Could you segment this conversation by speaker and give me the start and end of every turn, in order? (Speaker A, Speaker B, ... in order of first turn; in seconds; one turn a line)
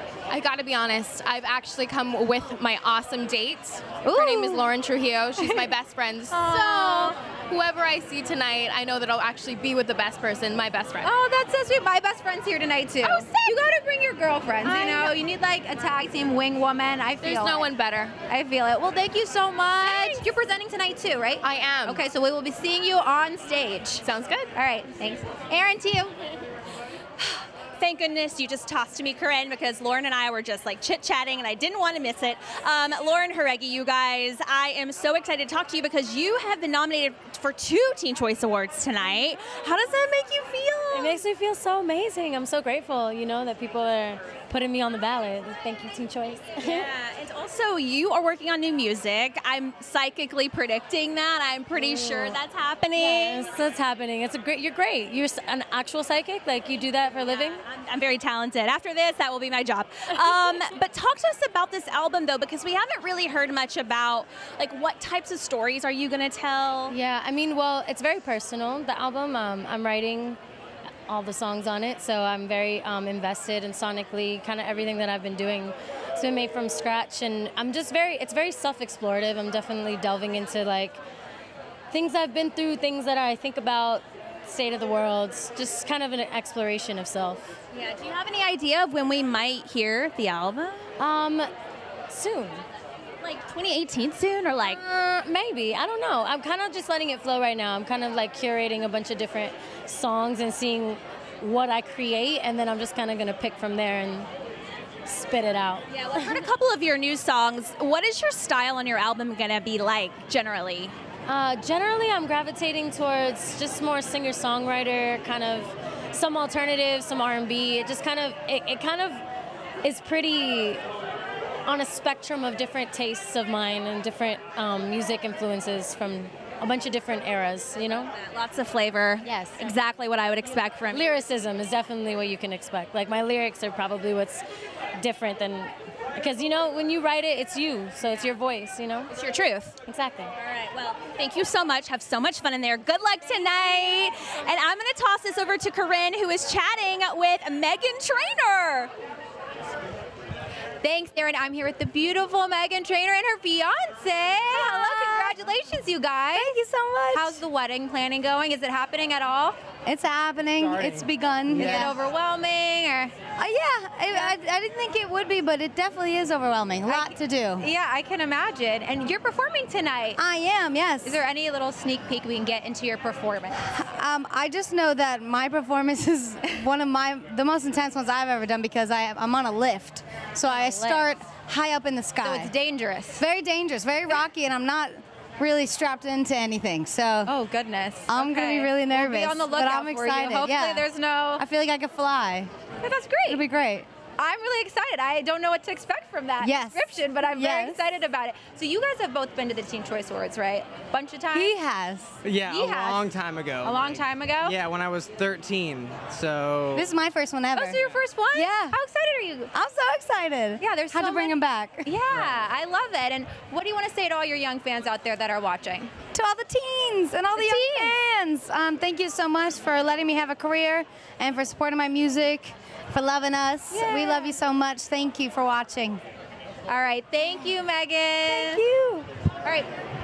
Speaker A: 0.3-11.1
Speaker B: 4.0-4.7
Speaker B: 5.4-5.7
Speaker B: 6.3-7.2
Speaker B: 11.0-17.7
Speaker A: 14.6-15.1
Speaker A: 17.2-18.2
Speaker B: 18.2-26.1
Speaker C: 19.9-20.2
Speaker A: 21.4-22.0
Speaker A: 24.0-24.5
Speaker C: 27.2-41.2
Speaker D: 40.9-46.9
Speaker C: 46.6-53.6
Speaker D: 51.8-52.4
Speaker D: 53.0-57.6
Speaker C: 57.3-67.0
Speaker D: 66.9-70.4
Speaker D: 71.1-81.0
Speaker D: 81.9-87.6
Speaker C: 87.7-90.8
Speaker D: 91.0-91.5
Speaker D: 92.1-92.6
Speaker C: 93.2-94.8
Speaker D: 94.7-104.3
Speaker D: 105.0-106.5
Speaker C: 105.9-110.9
Speaker D: 111.3-119.2
Speaker D: 119.8-120.8
Speaker D: 121.7-128.1
Speaker C: 128.1-131.0
Speaker E: 129.3-129.5
Speaker B: 129.6-130.5
Speaker D: 130.9-134.4
Speaker D: 135.0-139.1
Speaker C: 139.1-139.8
Speaker D: 139.9-140.3
Speaker C: 140.4-148.9
Speaker B: 150.8-156.6
Speaker E: 156.5-157.1
Speaker B: 157.1-159.6
Speaker E: 159.8-162.0
Speaker B: 161.5-163.2
Speaker F: 161.5-161.8
Speaker E: 163.3-167.7
Speaker B: 164.1-164.4
Speaker B: 166.9-170.2
Speaker E: 170.2-171.2
Speaker B: 171.0-173.6
Speaker E: 173.6-182.5
Speaker B: 180.5-181.1
Speaker B: 182.2-183.3
Speaker E: 183.2-187.3
Speaker B: 187.3-191.4
Speaker E: 188.1-192.5
Speaker B: 192.8-193.4
Speaker E: 193.3-193.9
Speaker B: 194.2-201.6
Speaker E: 196.4-197.8
Speaker E: 201.3-202.2
Speaker F: 202.2-206.9
Speaker B: 202.4-203.1
Speaker B: 203.6-204.6
Speaker E: 206.8-207.8
Speaker B: 207.6-209.5
Speaker E: 208.3-208.8
Speaker E: 209.5-211.9
Speaker B: 210.6-215.9
Speaker E: 216.1-226.0
Speaker B: 217.3-217.9
Speaker B: 223.7-224.4
Speaker B: 226.7-228.7
Speaker E: 228.3-229.0